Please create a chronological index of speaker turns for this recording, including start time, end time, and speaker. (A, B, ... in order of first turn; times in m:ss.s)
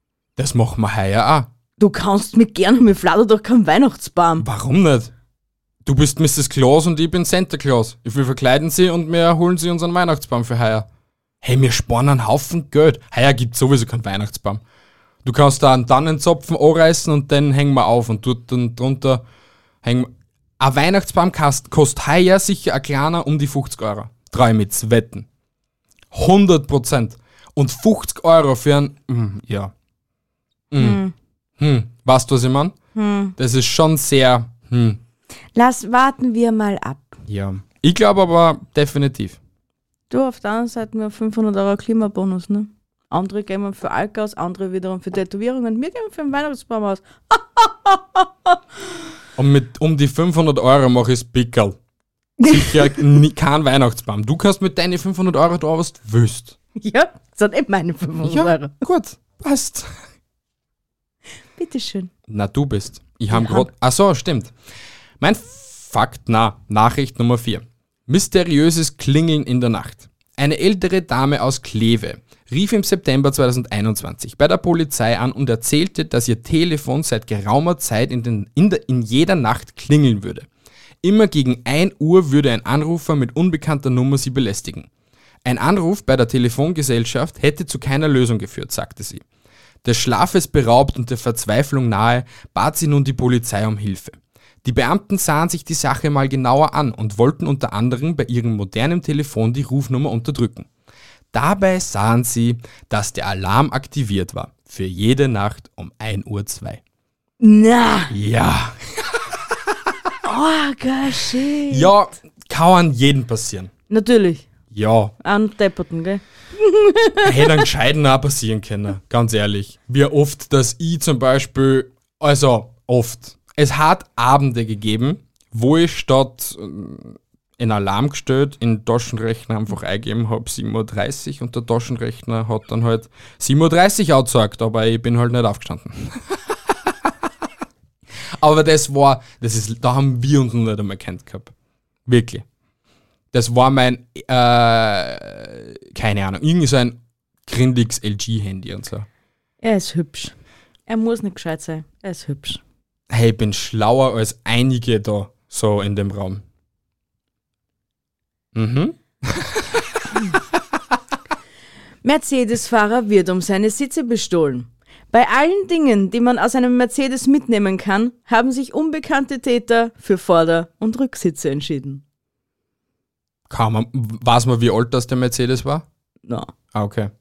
0:00.4-0:01.5 A
0:01.8-0:04.4 B
0:04.4-0:05.1 A
0:05.8-0:10.9 A
0:11.4-0:14.6 A
0:15.2-0:19.2 A
0:19.8-0:25.3 A
0:26.1-0:29.7 A
0:30.7-0:31.0 A
0:30.8-0:31.1 B
0:31.6-0:32.8 A
0:33.0-0:33.4 B
0:33.4-0:35.0 A
0:35.6-0:37.2 B
0:37.3-0:39.4 A
0:40.1-0:48.6 B
0:49.4-0:51.8 A
0:52.4-0:53.0 B
0:52.4-0:56.6 A
0:56.8-0:58.8 B
0:58.2-1:00.0 A
1:01.6-1:02.1 B
1:02.3-1:04.5 A
1:03.3-1:03.7 B
1:05.2-1:20.5 A
1:21.0-1:24.9 A
1:25.4-1:29.2 A
1:29.8-1:40.7 A
1:41.3-1:46.8 A
1:47.4-1:48.1 B
1:48.1-1:49.9 A
1:50.2-1:51.9 B
1:51.7-1:53.7 A
1:53.9-1:54.5 B
1:54.7-1:55.1 A
1:55.2-1:57.6 B
1:57.2-2:17.1 A
2:18.4-2:21.5 A
2:22.1-2:22.4 A
2:23.3-2:29.1 A
2:29.6-2:30.4 B
2:30.9-2:32.6 B
2:33.1-2:36.4 A
2:38.5-2:40.0 A
2:42.0-2:52.0 B
2:53.5-2:55.9 A
2:56.3-2:56.5 B
2:56.7-2:57.1 A